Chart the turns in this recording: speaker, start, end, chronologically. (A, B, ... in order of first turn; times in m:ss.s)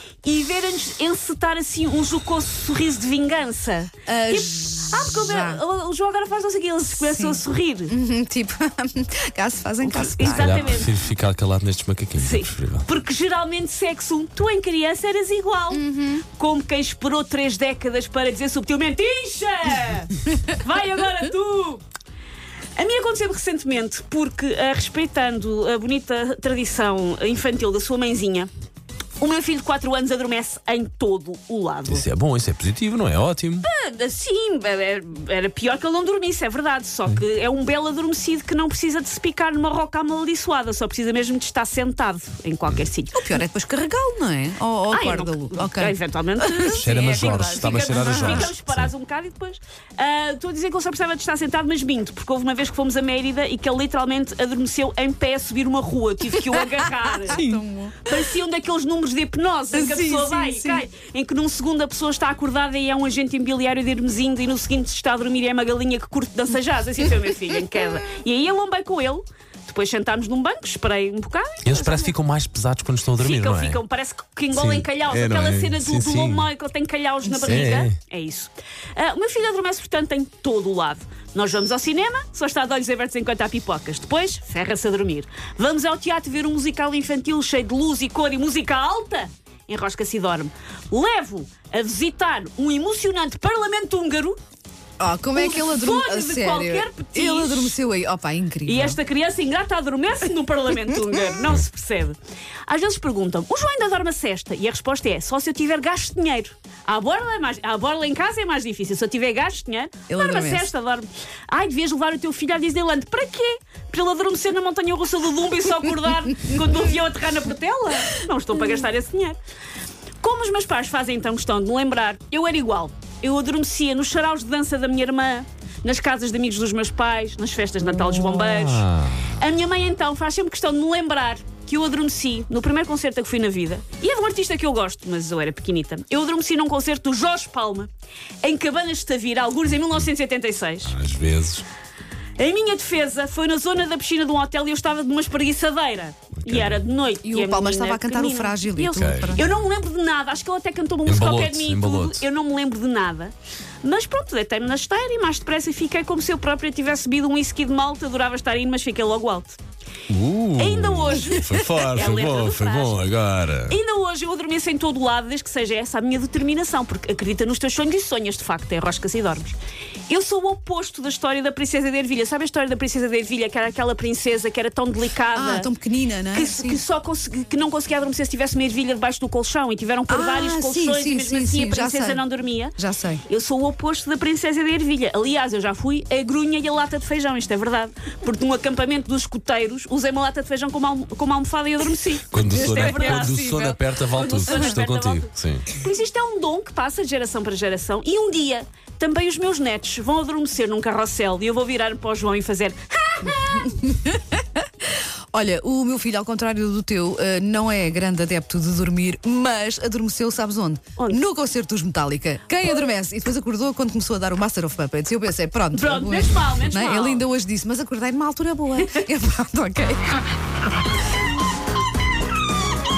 0:00.2-0:07.9 A
0:04.1-0:05.6 B
0:07.0-0:10.9 B
0:09.8-0:10.9 A
0:10.2-0:12.9 C
0:12.2-0:21.8 A
0:15.7-0:16.2 B
0:22.8-0:28.5 A
0:29.2-0:32.0 A
0:31.9-0:33.6 C
0:33.6-0:43.2 A
0:43.1-0:48.5 B
0:44.9-0:57.4 A
0:46.8-0:48.9 C
0:56.5-0:58.2 B
0:57.3-0:57.6 C
0:58.0-1:12.1 A
0:59.7-1:00.8 B
1:11.6-1:13.8 C
1:13.2-1:34.4 A
1:14.5-1:16.5 C
1:17.2-1:17.8 B
1:17.4-1:18.0 C
1:35.0-1:39.0 B
1:35.3-1:37.8 A
1:38.6-1:59.4 A
1:50.1-1:50.7 B
2:00.2-2:17.9 A
2:07.8-2:09.3 C
2:18.4-2:20.9 A
2:20.8-2:21.6 C
2:22.4-2:39.6 A
2:26.4-2:26.8 C
2:27.2-2:29.5 B
2:28.9-2:29.5 C
2:31.0-2:32.2 C
2:40.1-2:43.8 C
2:40.6-2:43.1 A
2:43.7-2:49.6 A
2:50.1-2:55.7 A
2:55.3-2:56.8 B
2:56.3-3:13.6 A
3:00.1-3:03.2 B
3:12.3-3:15.7 C
3:12.5-3:13.8 B
3:14.1-3:23.8 A
3:14.4-3:14.8 B
3:23.2-3:40.2 B
3:31.0-3:31.2 A
3:35.7-3:37.2 A